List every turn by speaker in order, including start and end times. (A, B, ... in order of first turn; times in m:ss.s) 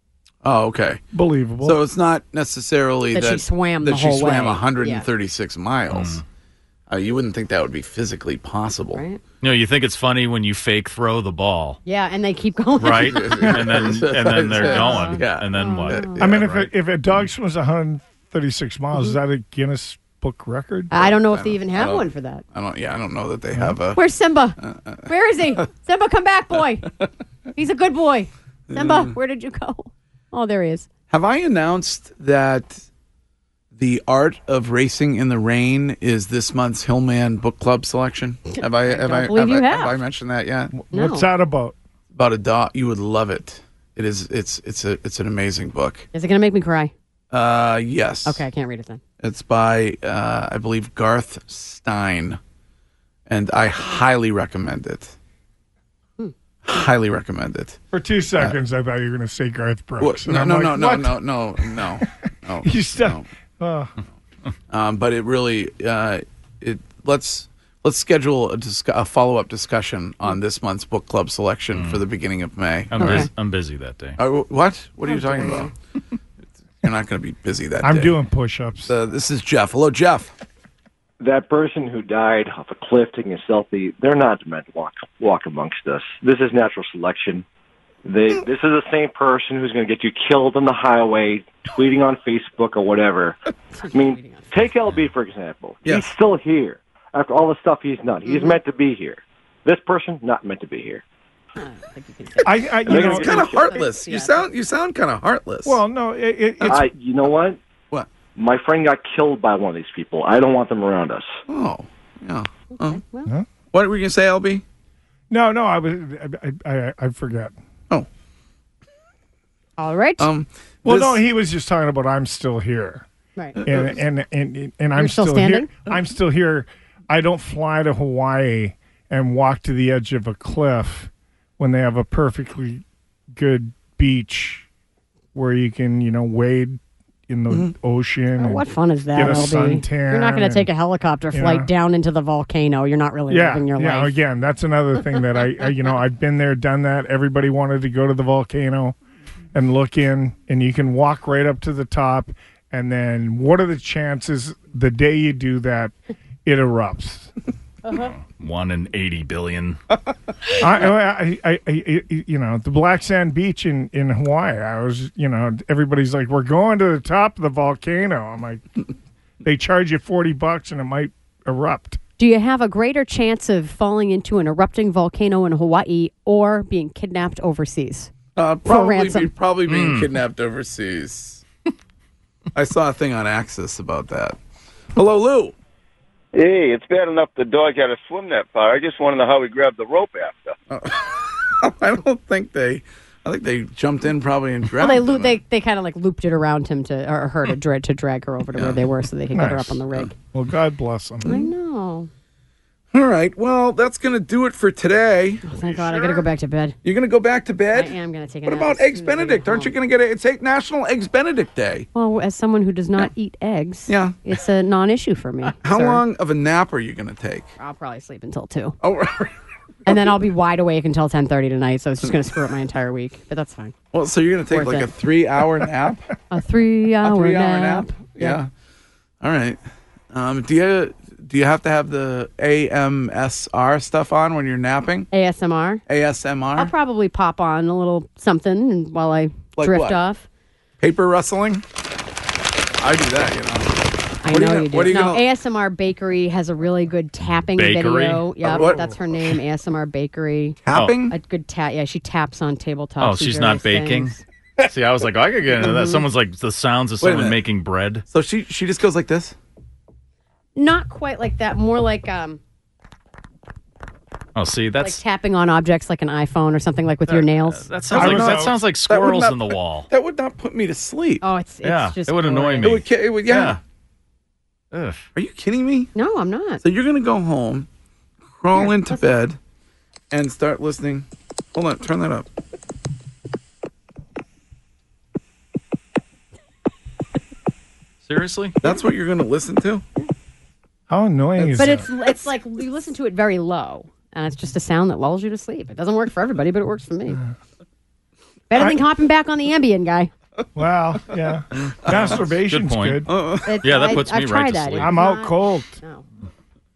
0:00.4-0:01.0 A
0:01.1-0:01.8 B
0:01.6-0:06.2 A
0:03.1-0:05.1 C
0:05.9-0:06.2 D
0:06.9-0:09.0 A
0:09.0-0:09.2 C
0:09.4-0:11.8 D
0:11.9-0:13.5 C
0:12.8-0:16.7 D
0:13.0-0:16.4 A
0:14.6-0:16.2 C
0:16.2-0:21.2 B
0:20.9-0:22.4 C
0:21.3-0:24.0 A
0:24.0-0:26.9 C
0:24.6-0:25.1 A
0:27.6-0:30.9 C
0:28.7-0:29.2 A
0:31.1-0:32.8 A
0:33.8-0:40.7 A
0:38.8-0:40.0 C
0:40.7-0:41.8 B
0:40.9-0:41.3 C
0:42.1-0:46.1 A
0:46.1-0:46.9 C
0:47.3-0:48.5 A
0:48.2-0:49.0 C
0:49.2-0:52.4 A
0:53.3-0:55.1 A
0:56.6-0:57.8 A
0:57.9-1:02.0 B
1:00.0-1:03.2 A
1:02.6-1:03.9 B
1:04.7-1:13.3 A
1:11.7-1:12.0 D
1:12.9-1:14.2 D
1:13.0-1:13.3 C
1:14.2-1:15.7 A
1:15.1-1:15.7 C
1:16.8-1:18.2 A
1:17.8-1:18.9 B
1:18.9-1:20.3 A
1:21.2-1:27.4 E
1:28.0-1:33.4 E
1:33.8-1:34.5 C
1:33.9-1:41.0 E
1:35.8-1:36.2 A
1:38.3-1:38.5 C
1:41.6-1:44.4 C
1:42.4-1:43.4 B
1:42.9-1:43.7 E
1:42.9-1:45.8 A
1:45.6-1:46.9 B
1:46.6-1:47.6 E
1:48.4-1:51.4 E
1:51.5-1:53.0 A
1:52.7-1:53.3 C
1:53.7-1:54.6 A
1:55.3-1:57.6 B
1:59.8-2:00.3 C
2:00.2-2:01.2 A
2:00.8-2:03.1 B
2:03.6-2:03.9 A
2:03.6-2:14.7 B
2:05.0-2:05.7 C
2:15.3-2:20.7 B
2:18.4-2:24.2 C
2:21.3-2:21.7 B
2:23.3-2:29.0 B
2:29.5-2:35.9 B
2:36.4-2:37.3 B
2:37.8-2:38.1 C
2:37.9-2:39.8 D
2:40.6-2:48.6 B
2:49.4-2:52.0 B
2:52.2-2:58.1 C
2:58.4-3:01.4 A
2:58.7-2:59.3 C
2:59.7-3:00.1 D
3:02.6-3:04.4 A
3:05.0-3:05.6 A
3:06.3-3:10.6 F
3:10.7-3:15.3 A
3:14.8-3:20.2 C
3:18.6-3:18.8 A
3:19.3-3:21.4 B
3:21.2-3:22.1 C
3:22.9-3:26.1 A
3:25.4-3:26.8 C
3:26.8-3:27.9 A
3:27.7-3:29.7 C
3:28.5-3:31.9 A
3:31.9-3:36.0 C
3:33.9-3:34.2 A
3:35.6-3:37.5 A
3:37.6-3:38.8 C
3:38.8-3:39.4 A
3:39.9-3:43.8 C
3:43.9-3:46.0 A
3:44.5-3:44.9 C
3:46.3-3:48.4 C
3:47.0-3:48.5 A
3:49.2-3:49.6 A
3:50.1-3:55.1 A
3:55.1-3:55.8 C
3:55.9-3:56.7 A
3:56.6-4:00.2 C
3:59.6-4:00.0 A
4:00.8-4:01.6 A
4:02.8-4:05.2 A
4:04.2-4:10.6 C
4:07.6-4:08.2 D
4:08.4-4:09.3 A
4:10.7-4:11.2 A
4:11.1-4:14.2 C
4:13.0-4:18.0 D
4:15.7-4:16.0 A
4:17.0-4:17.4 A
4:18.1-4:19.4 A
4:20.6-4:22.4 C
4:24.4-4:25.0 D
4:24.8-4:27.6 C
4:27.1-4:29.9 D
4:27.9-4:31.2 A
4:27.9-4:28.6 B
4:31.2-4:32.7 C
4:31.6-4:33.6 D
4:32.6-4:33.6 A
4:34.7-4:35.1 D
4:35.2-4:35.9 A
4:36.0-4:36.6 C
4:36.6-4:37.7 A
4:38.4-4:39.4 A
4:38.5-4:39.0 C
4:40.1-4:42.3 A
4:48.0-4:48.6 D
4:48.6-4:49.8 A
4:50.9-4:51.9 B
4:51.4-4:57.2 C
4:57.1-4:57.4 B
4:58.5-5:00.1 C
4:58.6-4:58.8 B
5:00.6-5:03.1 B
5:01.5-5:03.0 D
5:01.9-5:02.2 A
5:03.1-5:03.6 A
5:03.4-5:06.0 C
5:03.6-5:05.0 D
5:04.8-5:05.8 B